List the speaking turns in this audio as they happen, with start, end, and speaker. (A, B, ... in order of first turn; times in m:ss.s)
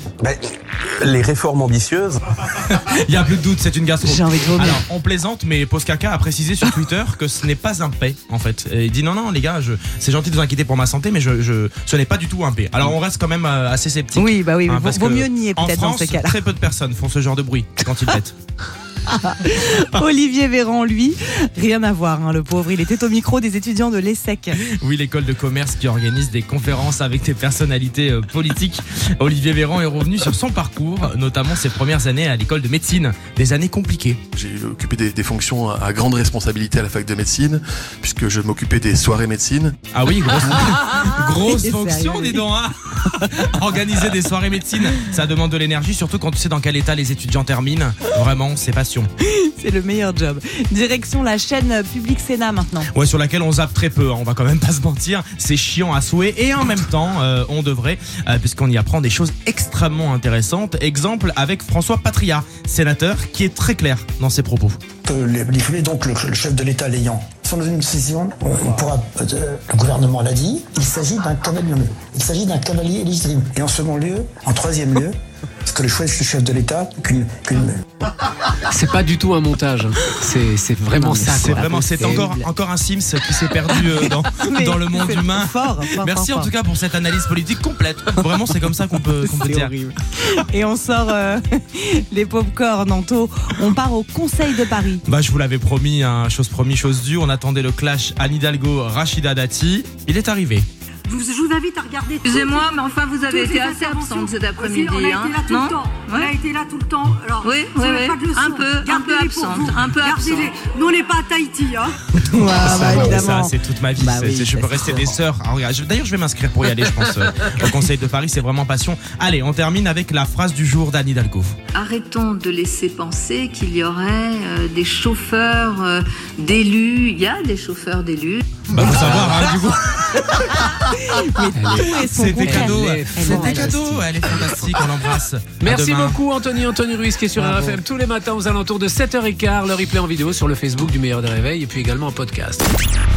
0:00.2-0:02.2 A
0:02.5-0:18.3 B
0:04.0-0:04.8 C
0:14.1-0:16.4 C
0:19.1-0:24.6 C
0:24.6-0:34.2 B
0:34.3-0:39.8 D
0:39.9-0:49.1 B
0:41.4-0:42.4 C
0:49.2-0:52.9 C
0:52.9-1:04.8 B
1:05.0-1:17.8 E
1:18.7-1:22.3 F
1:20.9-1:22.5 C
1:21.2-1:29.7 B
1:23.6-1:26.5 C
1:29.2-1:35.0 C
1:35.1-1:40.7 B
1:41.1-1:44.4 G
1:42.2-1:46.3 H
1:45.2-1:52.0 G
1:47.4-1:50.5 H
1:52.2-2:01.6 B
1:52.3-1:55.2 C
2:01.7-2:08.6 H
2:08.7-2:10.7 B
2:08.8-2:09.4 F
2:10.3-2:13.7 C
2:11.5-2:14.8 F
2:12.0-2:16.2 B
2:15.6-2:22.7 F
2:17.4-2:17.7 C